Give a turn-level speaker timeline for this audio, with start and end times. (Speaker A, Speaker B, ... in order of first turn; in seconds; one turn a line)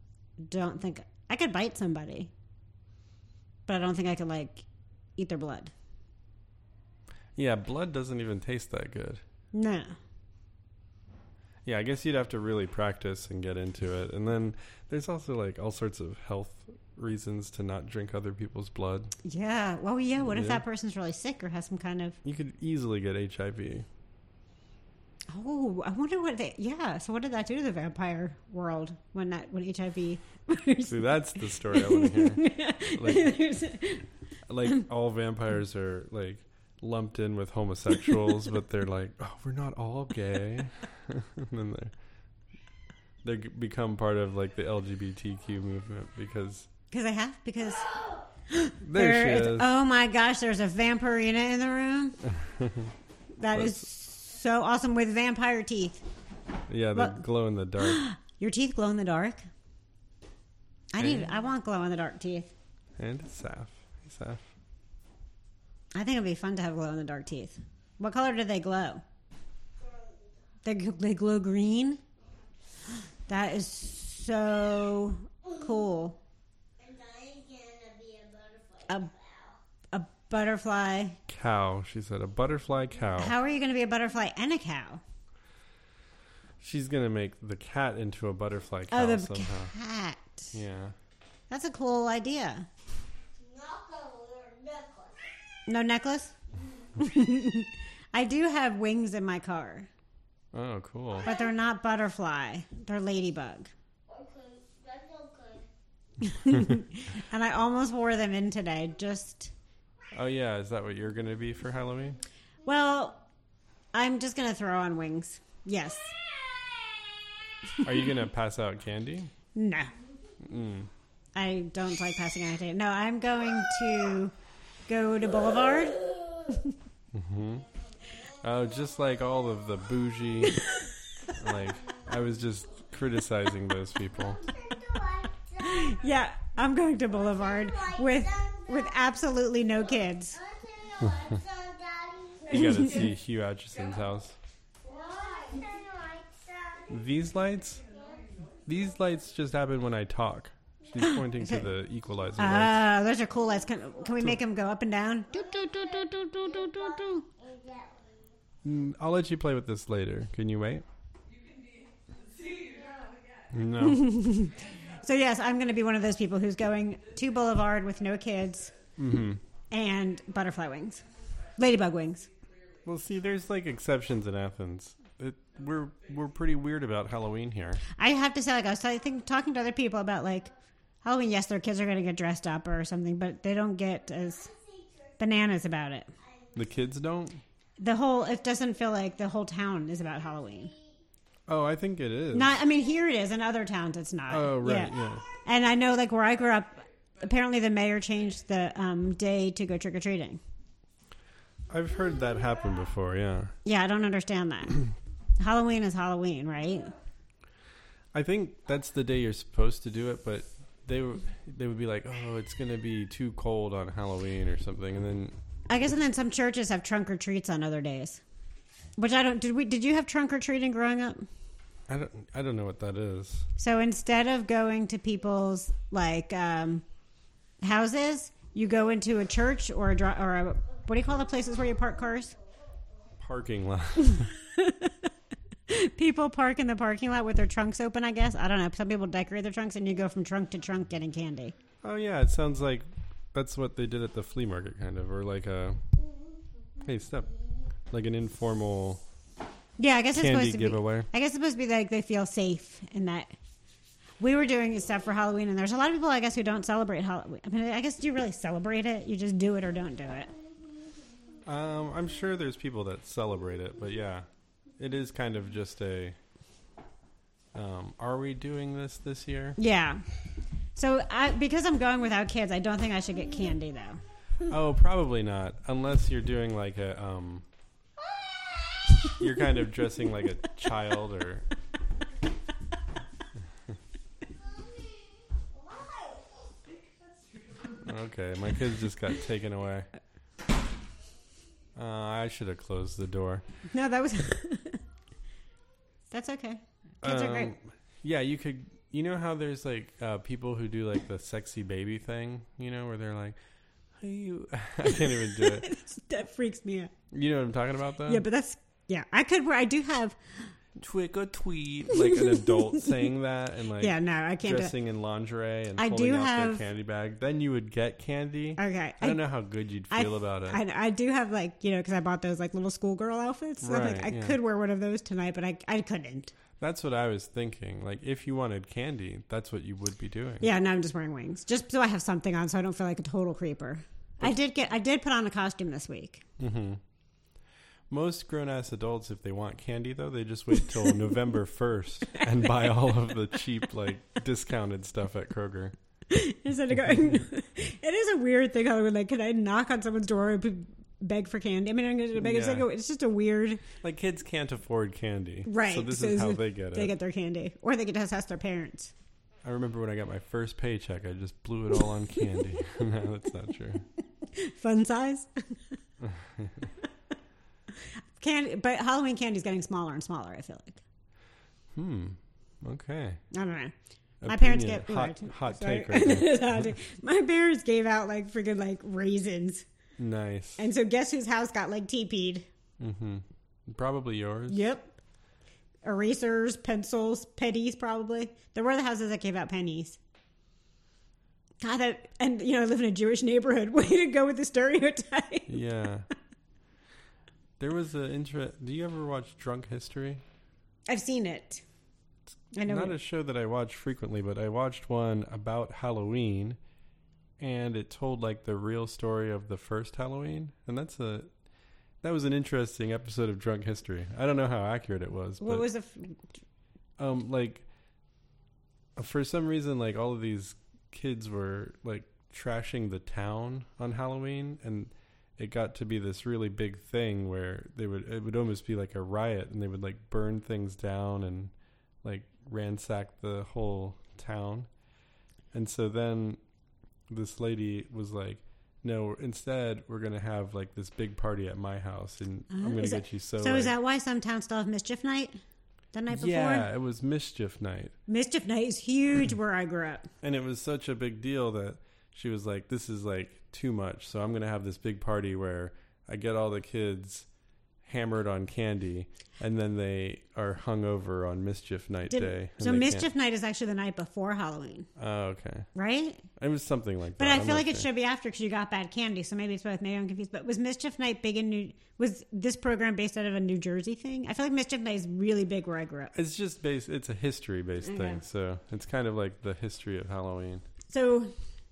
Speaker A: 0.4-2.3
Speaker A: 3.7-4.6
Speaker A: 5.2-5.7
Speaker B: 7.4-9.2
Speaker A: 9.5-10.0
Speaker B: 11.6-19.1
Speaker A: 19.2-22.2
Speaker B: 20.2-20.6
Speaker B: 22.2-23.9
Speaker A: 25.3-34.0
Speaker B: 30.9-33.3
Speaker B: 34.5-41.9
Speaker B: 43.2-46.7
Speaker A: 46.9-47.9
Speaker A: 48.5-52.2
Speaker B: 48.8-49.7
Speaker B: 52.4-52.9
Speaker A: 53.4-56.0
Speaker B: 53.5-53.8
Speaker B: 56.7-58.0
Speaker A: 56.9-57.2
Speaker A: 57.8-59.5
Speaker A: 60.9-62.5
Speaker B: 61.0-61.2
Speaker B: 63.0-64.4
Speaker A: 65.9-69.0
Speaker C: 69.8-70.3
Speaker A: 70.6-72.0
Speaker A: 73.3-76.2
Speaker C: 76.8-79.6
Speaker A: 79.9-81.2
Speaker B: 81.3-83.4
Speaker A: 83.2-85.0
Speaker B: 86.6-89.7
Speaker A: 88.9-90.5
Speaker B: 90.5-90.9
Speaker A: 91.5-92.7
Speaker C: 93.4-95.2
Speaker A: 95.7-96.3
Speaker A: 97.0-99.9
Speaker B: 100.5-101.3
Speaker C: 101.2-101.5
Speaker A: 101.2-103.7
Speaker C: 104.1-105.7
Speaker A: 106.2-109.5
Speaker B: 110.1-112.2
Speaker A: 112.6-113.2
Speaker A: 113.9-116.2
Speaker B: 117.8-119.3
Speaker A: 119.5-119.9
Speaker B: 120.4-120.9
Speaker A: 121.4-124.3
Speaker A: 124.9-126.7
Speaker B: 127.1-127.7
Speaker B: 128.2-130.6
Speaker A: 130.4-131.3
Speaker B: 131.4-134.4
Speaker C: 134.2-136.0
Speaker A: 135.6-140.4
Speaker C: 137.3-139.2
Speaker C: 140.3-142.6
Speaker B: 142.5-144.4
Speaker A: 142.5-143.1
Speaker C: 144.8-146.9
Speaker B: 146.9-147.8
Speaker C: 147.9-148.2
Speaker B: 148.7-152.8
Speaker A: 151.0-151.7
Speaker A: 152.4-157.2
Speaker C: 155.4-158.2
Speaker B: 158.6-160.8
Speaker B: 163.5-164.1
Speaker A: 163.8-168.7
Speaker B: 169.0-169.4
Speaker A: 169.7-171.0
Speaker A: 171.6-172.3
Speaker B: 172.8-177.8
Speaker A: 177.9-180.5
Speaker A: 181.0-184.5
Speaker C: 184.4-185.2
Speaker A: 185.2-186.1
Speaker C: 186.2-186.6
Speaker B: 186.6-187.4
Speaker A: 187.8-190.7
Speaker C: 190.6-190.9
Speaker B: 191.5-192.5
Speaker A: 192.3-200.4
Speaker B: 194.3-195.2
Speaker B: 201.7-203.5
Speaker A: 203.6-206.9
Speaker B: 208.1-215.3
Speaker A: 215.7-218.2
Speaker A: 219.0-221.3
Speaker B: 221.9-223.5
Speaker A: 223.6-226.8
Speaker A: 227.6-232.4
Speaker B: 233.2-234.3
Speaker A: 234.0-235.1
Speaker A: 235.7-241.6
Speaker B: 241.8-245.8
Speaker B: 246.8-247.3
Speaker B: 247.9-249.0
Speaker A: 249.8-253.3
Speaker B: 250.1-251.1
Speaker A: 254.2-260.3
Speaker B: 261.4-264.3
Speaker B: 264.8-266.1
Speaker B: 267.5-269.6
Speaker A: 269.6-270.1
Speaker A: 270.8-274.0
Speaker B: 274.4-277.5
Speaker B: 279.2-281.4
Speaker C: 284.5-286.2
Speaker B: 287.8-289.9
Speaker B: 291.8-293.4
Speaker A: 293.7-294.8
Speaker A: 296.1-297.5
Speaker B: 297.0-303.4
Speaker B: 304.0-305.7
Speaker A: 304.9-306.9
Speaker B: 307.1-308.2
Speaker A: 308.1-310.2
Speaker B: 310.8-320.6
Speaker A: 311.9-312.6
Speaker A: 313.8-314.7
Speaker A: 315.8-316.6
Speaker A: 318.6-319.2
Speaker A: 319.9-326.3
Speaker B: 323.6-324.4
Speaker B: 326.6-330.5
Speaker A: 330.4-336.2
Speaker B: 336.4-336.8
Speaker B: 337.9-345.8
Speaker A: 342.2-342.5
Speaker A: 346.1-353.6
Speaker B: 352.1-352.7
Speaker B: 353.8-356.9
Speaker A: 355.4-358.9
Speaker B: 359.4-363.8
Speaker A: 364.2-365.6
Speaker B: 366.0-366.7
Speaker A: 368.2-370.8
Speaker B: 371.7-373.2
Speaker A: 373.3-373.7
Speaker B: 374.2-376.7
Speaker A: 374.2-379.6
Speaker B: 380.0-380.6
Speaker A: 380.6-382.4
Speaker B: 382.8-384.6
Speaker A: 384.5-384.9
Speaker A: 385.8-390.0
Speaker A: 391.6-395.6
Speaker B: 395.5-396.1
Speaker B: 397.6-400.2
Speaker A: 400.9-401.6
Speaker A: 402.5-403.0
Speaker B: 402.6-406.6
Speaker B: 407.4-411.3
Speaker B: 412.0-415.6
Speaker A: 415.4-416.2
Speaker B: 417.0-417.6
Speaker B: 418.9-434.7
Speaker B: 435.5-436.4
Speaker B: 437.1-443.7
Speaker A: 442.5-445.4
Speaker A: 445.9-446.7
Speaker B: 446.1-447.9
Speaker A: 448.1-450.1
Speaker B: 450.2-457.3
Speaker B: 457.8-463.1
Speaker A: 462.1-464.9
Speaker B: 465.0-465.7
Speaker A: 465.7-466.3
Speaker B: 466.4-467.9
Speaker A: 467.2-476.1
Speaker B: 476.1-480.6
Speaker A: 477.8-478.2
Speaker A: 480.9-481.4